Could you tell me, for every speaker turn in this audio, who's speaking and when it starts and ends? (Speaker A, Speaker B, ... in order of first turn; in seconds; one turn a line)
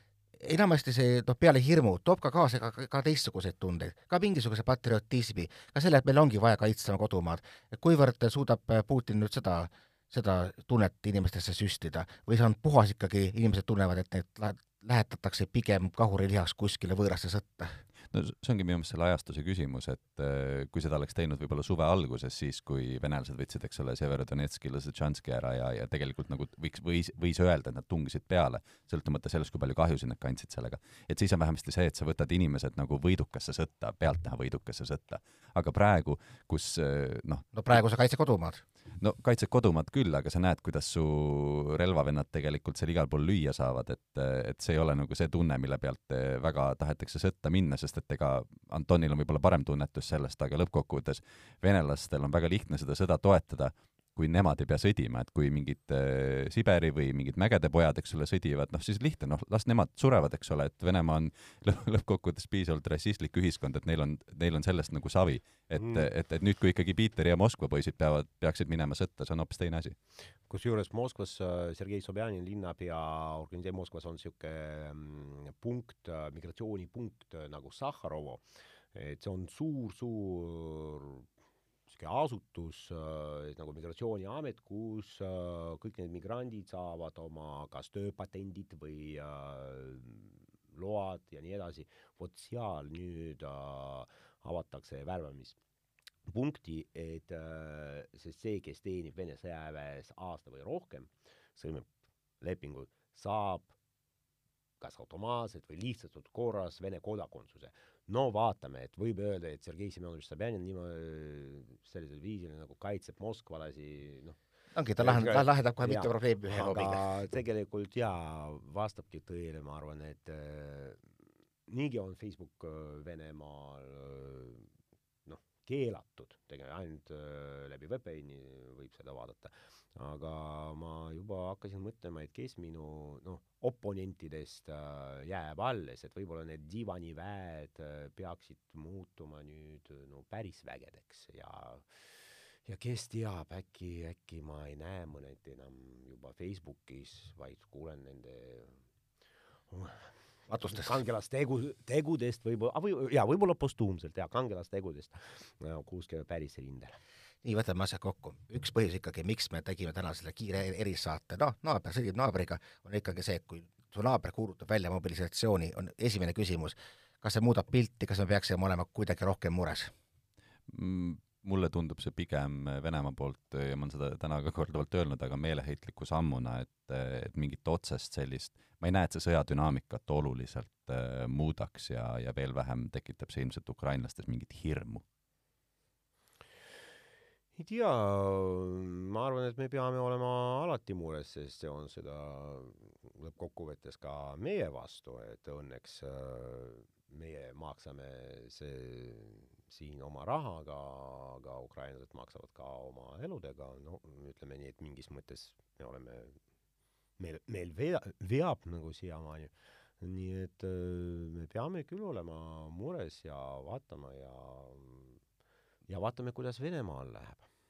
Speaker A: 0.4-17.8
Speaker B: 18.1-37.5
Speaker A: 37.5-38.6
Speaker B: 39.0-70.0
Speaker C: 65.8-66.1
Speaker C: 70.5-81.3
Speaker C: 81.9-95.6
Speaker C: 96.3-101.9
Speaker C: 102.4-103.7
Speaker C: 104.8-114.4
Speaker A: 114.7-117.1
Speaker C: 115.0-121.1
Speaker C: 121.7-124.7
Speaker C: 125.3-142.1
Speaker C: 142.7-148.8
Speaker C: 149.7-150.1
Speaker A: 150.5-150.9
Speaker C: 150.6-157.0
Speaker A: 157.4-169.9
Speaker B: 170.7-185.0
Speaker C: 187.6-206.4
Speaker C: 207.2-215.2
Speaker C: 215.9-217.5